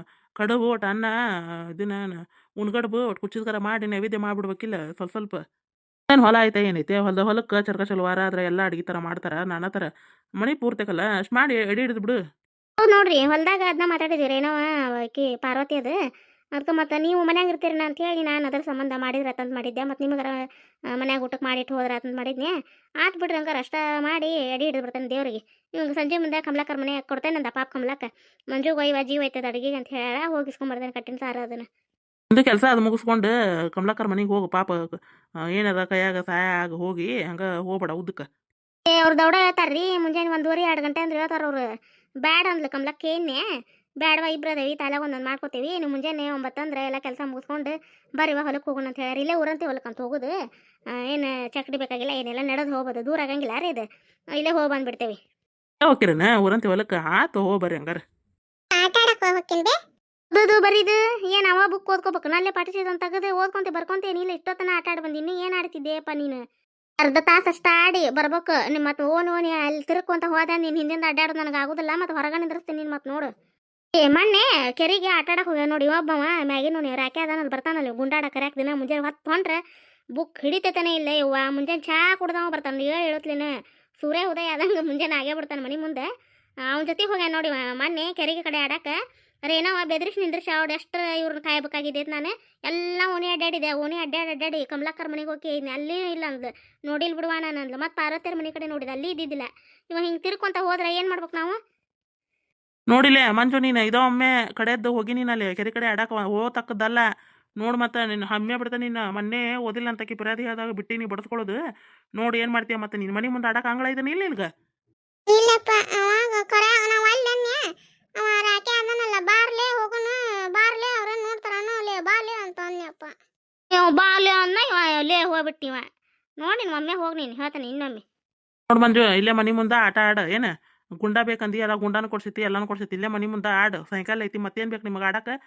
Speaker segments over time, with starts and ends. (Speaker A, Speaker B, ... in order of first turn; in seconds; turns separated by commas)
Speaker A: 0.4-1.1, Speaker A: 1.8-5.4, Speaker A: 6.1-9.9, Speaker A: 10.4-12.2, Speaker B: 12.8-15.9, Speaker B: 16.6-20.4, Speaker B: 21.0-22.5, Speaker B: 23.0-31.6, Speaker A: 32.3-34.8, Speaker A: 35.5-38.2, Speaker B: 38.9-41.6, Speaker B: 42.2-43.4, Speaker B: 44.0-50.3, Speaker B: 51.1-53.9, Speaker B: 54.4-55.2, Speaker A: 55.9-58.0, Speaker B: 58.8-59.7, Speaker B: 60.3-66.4, Speaker B: 67.0-73.3, Speaker B: 74.0-79.6, Speaker B: 80.2-86.0, Speaker B: 86.7-89.0, Speaker B: 89.5-101.6, Speaker A: 102.9-107.0, Speaker A: 107.6-111.5, Speaker A: 112.2-114.5, Speaker B: 115.3-117.6, Speaker B: 118.2-123.1, Speaker B: 123.7-125.8, Speaker B: 126.4-128.0, Speaker A: 128.7-130.5, Speaker A: 131.0-135.3